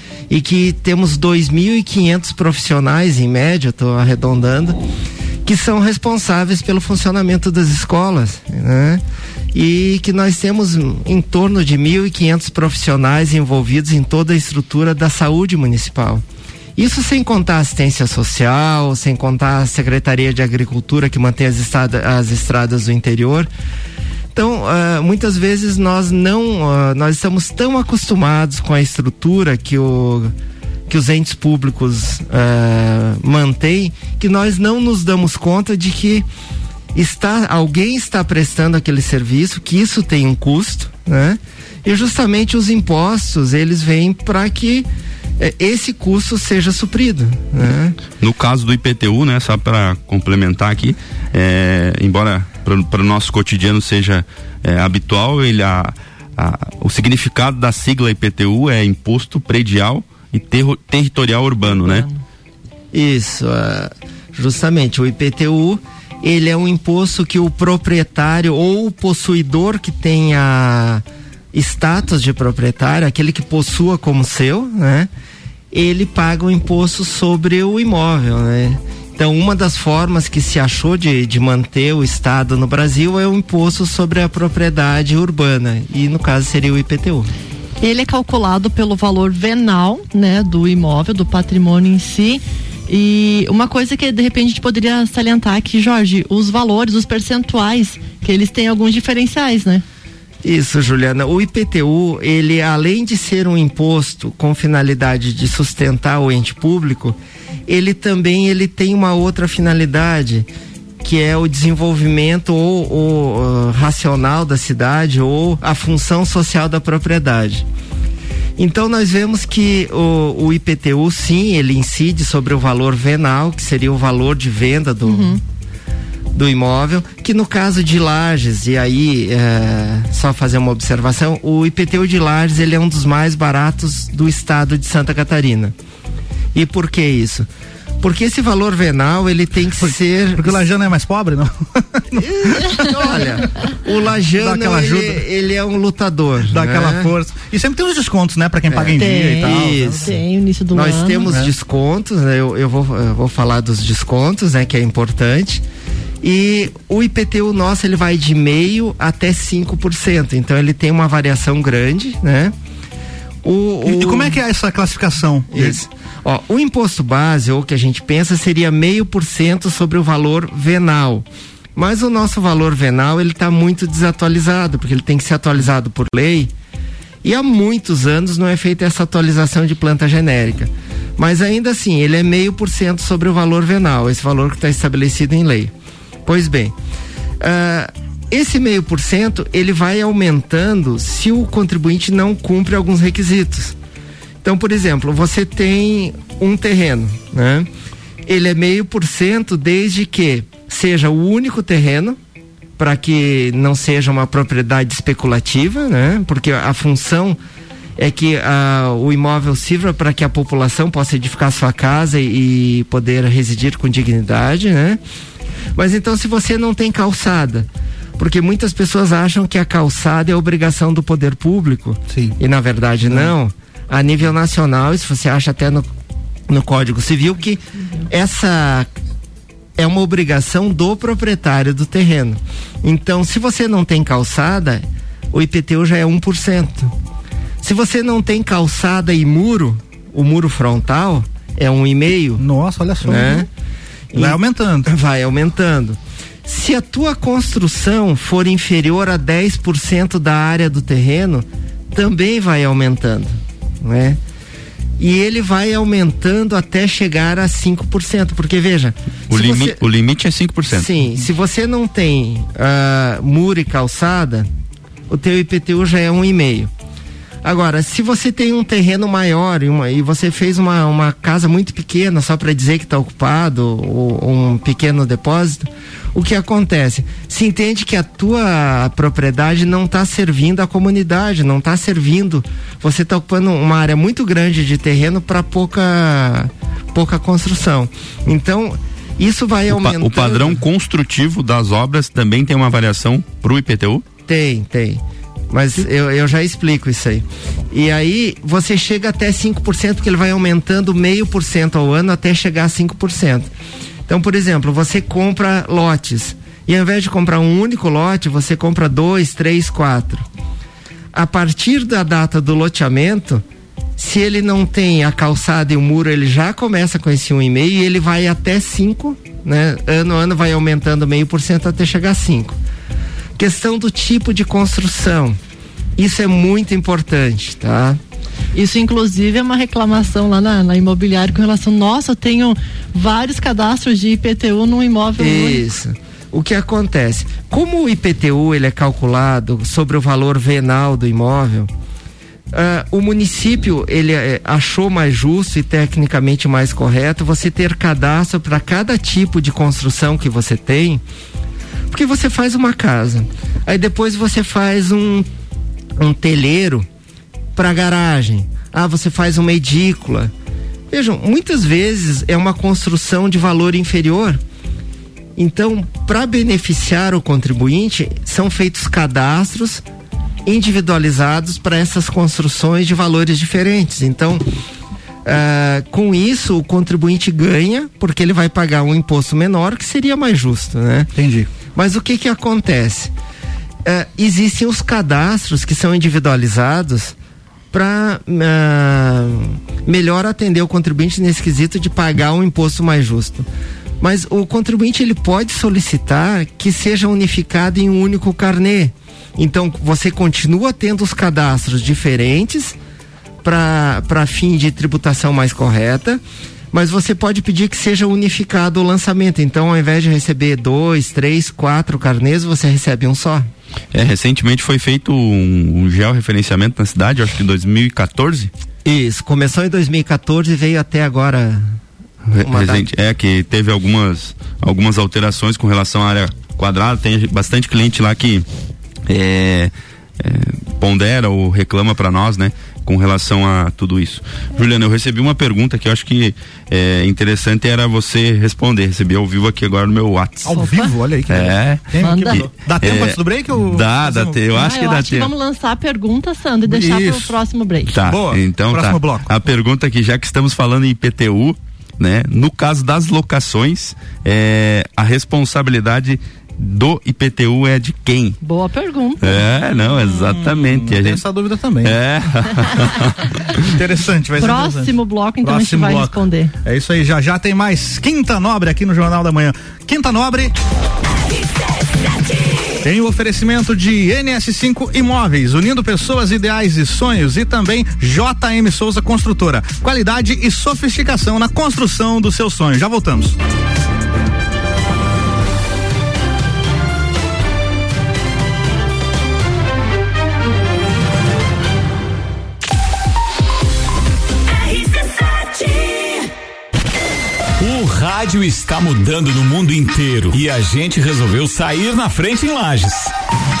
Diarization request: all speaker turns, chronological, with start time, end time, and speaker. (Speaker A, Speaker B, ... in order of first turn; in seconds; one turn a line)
Speaker A: 0.3-4.8
Speaker A: 5.4-16.2
Speaker A: 16.8-23.5
Speaker A: 24.3-30.3
Speaker A: 30.9-36.2
Speaker A: 36.9-48.0
Speaker B: 48.2-62.1
Speaker C: 61.7-62.2
Speaker A: 62.9-75.1
Speaker A: 75.7-87.3
Speaker C: 87.8-99.8
Speaker A: 100.4-110.5
Speaker A: 111.0-117.7
Speaker A: 118.6-125.4
Speaker C: 125.0-125.4
Speaker A: 126.3-135.7
Speaker A: 136.5-137.5
Speaker A: 138.0-140.6
Speaker D: 139.8-142.9
Speaker A: 142.2-147.1
Speaker D: 144.4-145.2
Speaker D: 146.5-150.1
Speaker A: 148.7-155.6
Speaker C: 149.0-151.3
Speaker A: 156.2-162.5
Speaker A: 163.4-164.4
Speaker D: 163.8-165.8
Speaker A: 165.5-176.5
Speaker A: 177.2-185.7
Speaker A: 186.2-186.7
Speaker A: 187.4-193.8
Speaker A: 194.4-197.7
Speaker A: 198.2-202.2
Speaker A: 202.8-207.4
Speaker A: 208.0-215.0
Speaker A: 215.7-225.9
Speaker D: 222.1-222.3
Speaker A: 226.5-228.9
Speaker A: 229.8-236.9
Speaker A: 237.6-242.4
Speaker D: 242.4-243.5
Speaker A: 243.0-243.5
Speaker A: 244.1-254.2
Speaker D: 244.2-244.9
Speaker A: 255.0-259.8
Speaker B: 259.3-260.9
Speaker A: 260.7-264.5
Speaker A: 265.1-266.7
Speaker A: 267.4-290.6
Speaker B: 289.7-294.0
Speaker A: 294.2-303.5
Speaker A: 304.1-310.2
Speaker A: 311.1-313.4
Speaker A: 314.0-322.6
Speaker A: 323.4-325.4
Speaker A: 326.0-328.0
Speaker C: 328.5-335.6
Speaker A: 335.2-341.7
Speaker A: 342.5-351.0
Speaker A: 351.9-355.3
Speaker A: 356.0-356.9
Speaker A: 357.5-360.3
Speaker A: 360.9-364.4
Speaker A: 365.4-369.8
Speaker A: 370.4-374.4
Speaker A: 375.2-381.1
Speaker D: 381.1-381.5
Speaker A: 381.7-383.1
Speaker A: 383.8-387.1
Speaker A: 387.7-393.5
Speaker A: 394.0-402.8
Speaker A: 403.4-413.5
Speaker B: 413.9-418.5
Speaker A: 418.8-421.8
Speaker B: 422.3-428.4
Speaker A: 422.3-422.9
Speaker B: 429.1-440.6
Speaker D: 440.4-444.4
Speaker C: 440.5-440.9
Speaker B: 441.3-445.3
Speaker C: 442.0-442.4
Speaker C: 444.5-447.9
Speaker D: 446.7-447.3
Speaker B: 447.9-458.4
Speaker D: 448.0-449.3
Speaker C: 458.4-459.4
Speaker B: 459.2-461.2
Speaker D: 460.1-461.9
Speaker B: 461.8-463.2
Speaker D: 463.5-470.5
Speaker C: 464.4-466.5
Speaker D: 472.8-483.4
Speaker E: 494.6-496.3
Speaker E: 497.6-503.1